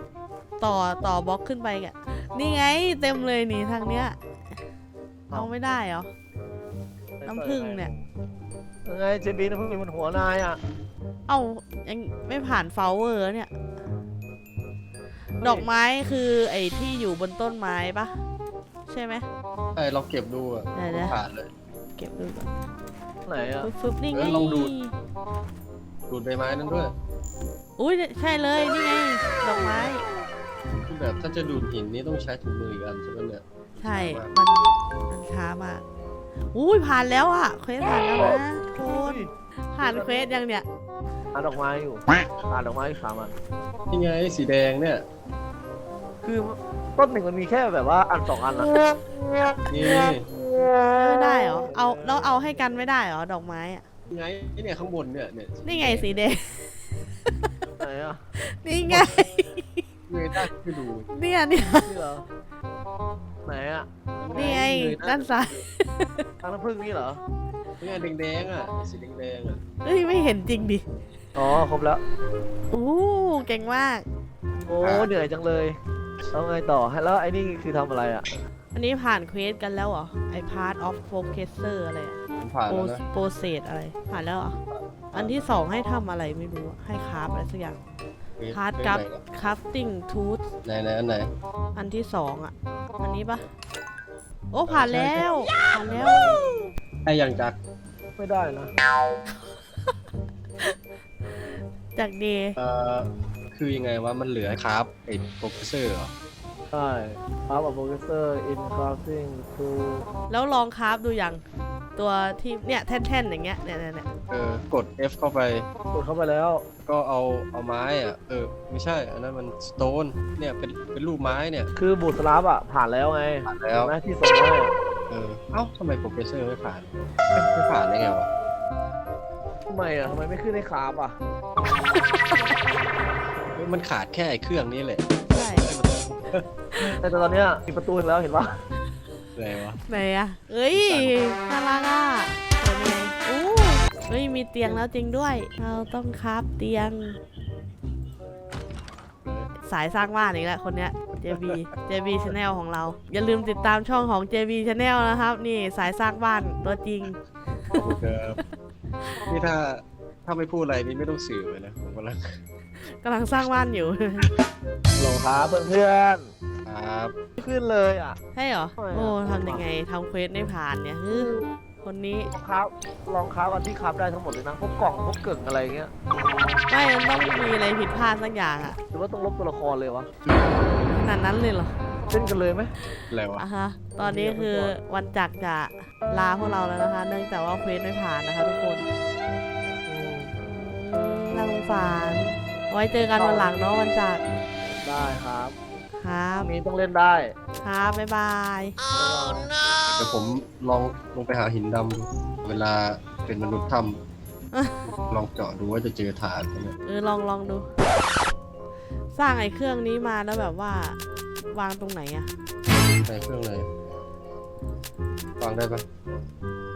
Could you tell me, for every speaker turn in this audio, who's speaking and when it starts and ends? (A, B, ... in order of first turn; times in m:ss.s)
0:00.6-0:04.2 A
0:05.3-0:06.1 A
0:07.2-0:08.0 B
0:07.2-0:07.9 A
0:08.8-0:10.6 B
0:11.3-0:13.5 A
0:15.4-0:15.7 B
0:15.4-0:18.2 A
0:18.9-0:19.2 A
0:19.7-0:21.5 C
0:20.7-0:21.2 A
0:22.0-0:22.5 A
0:23.2-0:23.7 B
0:23.6-0:24.9 A
0:24.1-0:24.7 C
0:26.1-0:26.9 C
0:27.8-0:30.0 A
0:30.8-0:34.4 C
0:33.8-0:35.8 A
0:36.5-0:40.6 A
0:38.2-0:39.3 B
0:39.8-0:40.4 B
0:41.3-0:43.3 B
0:43.9-0:45.0 C
0:46.2-0:48.7 B
0:49.7-0:50.3 C
0:51.0-0:53.8 A
0:51.6-0:52.7 B
0:54.1-0:56.2 C
0:55.6-0:56.7 A
0:57.8-0:58.3 B
0:58.4-0:59.8 A
0:58.9-0:59.2 C
1:00.1-1:01.1 C
1:01.1-1:01.9 A
1:01.7-1:02.2 B
1:03.4-1:03.9 B
1:04.1-1:05.6 C
1:04.3-1:06.2 A
1:06.4-1:07.2 B
1:07.8-1:09.6 C
1:09.8-1:10.8 A
1:11.4-1:12.0 B
1:12.7-1:14.0 A
1:14.6-1:15.8 B
1:14.8-1:15.1 C
1:16.3-1:18.4 B
1:18.7-1:24.6 A
1:22.4-1:23.0 C
1:24.6-1:25.4 C
1:25.1-1:27.8 A
1:28.4-1:29.2 C
1:28.5-1:30.4 A
1:30.6-1:31.3 C
1:31.8-1:33.5 A
1:34.5-1:36.7 A
1:34.7-1:36.4 C
1:37.0-1:37.6 C
1:38.2-1:38.7 B
1:42.0-1:42.6 A
1:42.6-1:46.1 C
1:46.7-1:50.1 B
1:50.3-1:51.4 A
1:52.0-1:54.1 A
1:54.3-1:55.7 C
1:55.9-1:56.6 B
1:56.8-2:01.7 C
2:01.8-2:04.7 B
2:03.5-2:03.9 C
2:05.1-2:08.3 C
2:09.7-2:11.2 B
2:13.5-2:15.1 C
2:15.3-2:15.7 A
2:15.6-2:17.0 C
2:17.0-2:18.6 B
2:19.3-2:19.8 C
2:19.9-2:27.2 A
2:20.7-2:21.2 C
2:29.2-2:29.5 C
2:29.6-2:37.2 A
2:31.3-2:31.6 C
2:37.7-2:38.4 C
2:39.3-2:42.4 C
2:42.9-2:44.3 A
2:45.0-2:46.3 B
2:46.6-2:47.2 C
2:47.4-2:48.2 B
2:48.3-2:51.3 A
2:48.8-2:49.6 B
2:51.1-2:51.5 B
2:51.8-2:52.3 A
2:52.3-2:55.9 B
2:56.7-2:58.8 A
2:58.9-3:00.1 B
3:00.2-3:01.0 C
3:00.9-3:01.7 A
3:02.1-3:02.7 B
3:03.1-3:03.4 C
3:03.4-3:08.8 A
3:04.0-3:04.7 B
3:09.9-3:10.3 B
3:10.7-3:14.2 A
3:13.2-3:13.5 B
3:14.7-3:15.5 B
3:16.0-3:16.5 A
3:16.4-3:17.4 B
3:17.6-3:18.8 A
3:18.9-3:19.5 B
3:20.0-3:24.0 C
3:24.8-3:26.8 C
3:26.8-3:27.7 A
3:29.1-3:31.0 A
3:31.5-3:32.3 A
3:33.0-3:33.7 C
3:35.4-3:35.8 C